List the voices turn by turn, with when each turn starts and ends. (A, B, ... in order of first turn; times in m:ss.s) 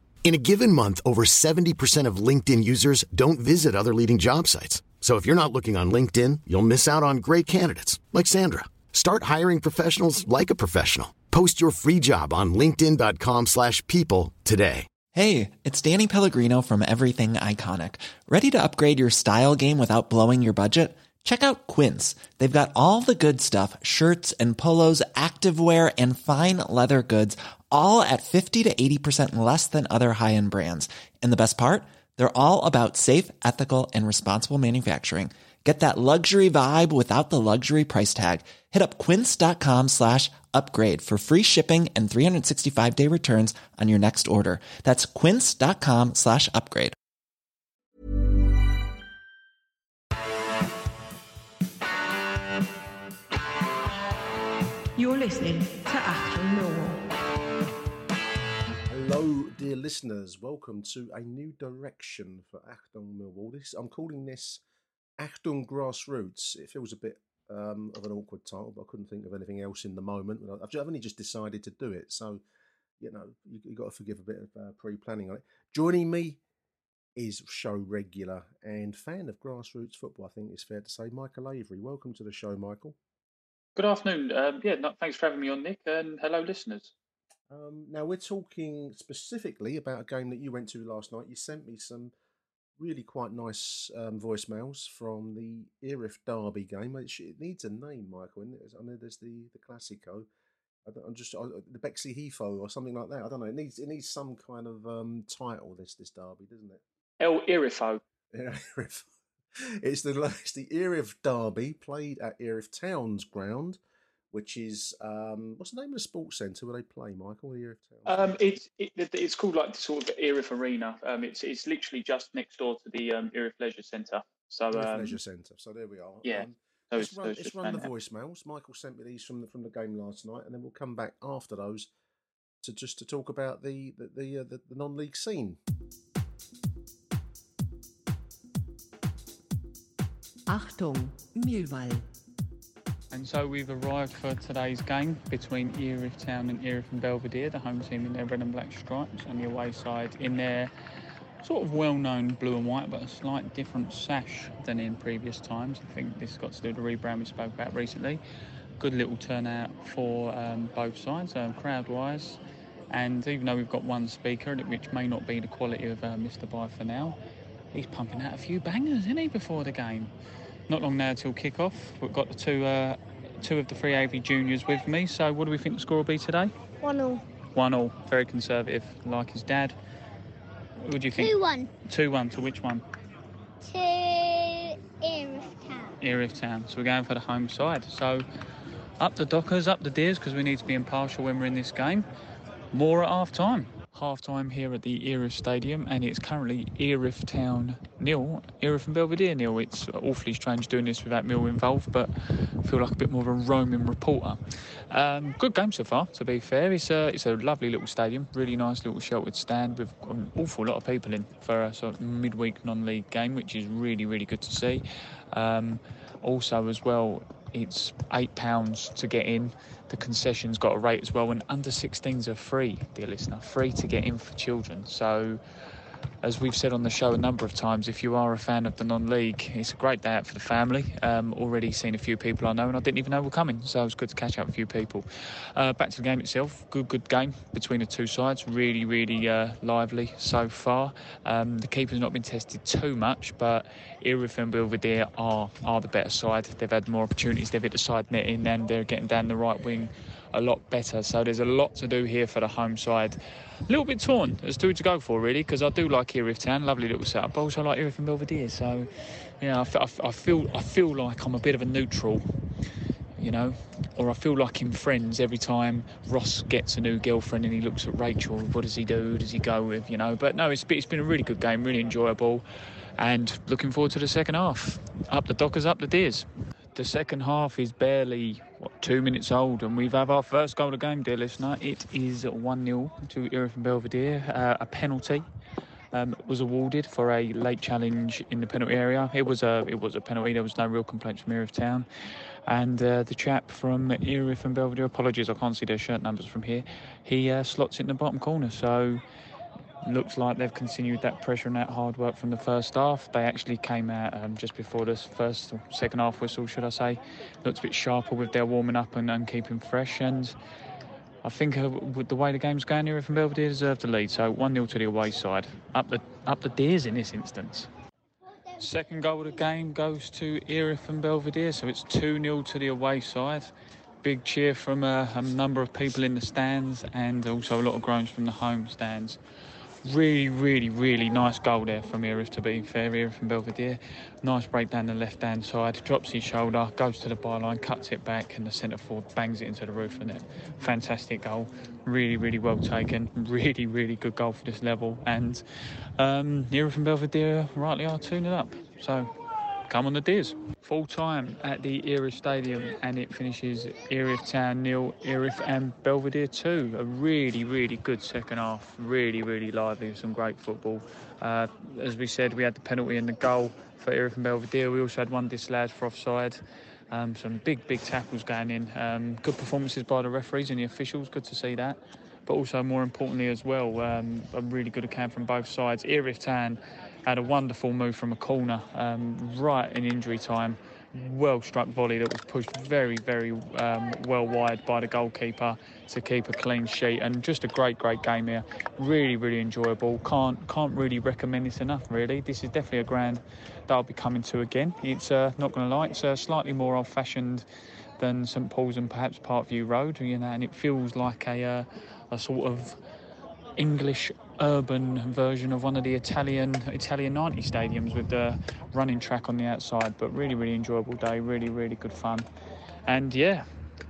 0:00.2-0:14.9 A
0:15.1-0:47.0 B
0:55.0-0:57.0 C
0:58.9-1:04.6 D
1:05.2-1:12.4 D
1:13.0-1:16.4 D
1:17.2-1:23.0 D
1:23.8-1:26.9 E
1:27.5-1:32.1 D
1:32.8-1:40.3 D
1:40.9-1:46.8 D
1:47.2-1:48.0 E
1:48.3-1:53.8 D
1:54.3-1:58.4 D
1:58.1-2:05.2 E
2:04.7-2:11.9 D
2:06.2-2:07.9 E
2:12.6-2:15.6 D
2:20.5-2:22.0 C
2:23.1-2:30.7 F
2:31.4-2:38.2 F
2:38.8-2:42.4 F
2:42.9-2:47.2 F
2:47.7-2:50.1 F
2:50.7-2:56.5 F
2:56.8-2:57.2 G
2:57.6-2:59.8 F
3:00.8-3:02.8 F
3:01.1-3:01.7 G
3:03.6-3:06.0 G
3:06.0-3:08.2 F
3:09.0-3:12.1 F
3:12.7-3:24.4 F
3:24.9-3:45.4 F
3:46.2-4:13.2 F
4:13.7-4:22.3 F
4:23.2-4:32.5 F
4:33.0-4:45.2 F
4:45.9-4:51.9 F
4:52.5-4:59.0 F
4:59.8-5:10.4 F
5:11.2-5:17.7 F
5:18.6-5:23.5 F
5:24.0-5:29.2 F
5:29.8-5:45.4 F
5:46.0-5:49.1 F
5:49.7-6:37.5 F
6:38.0-6:42.8 F
6:43.6-6:52.3 F
6:52.9-6:53.5 F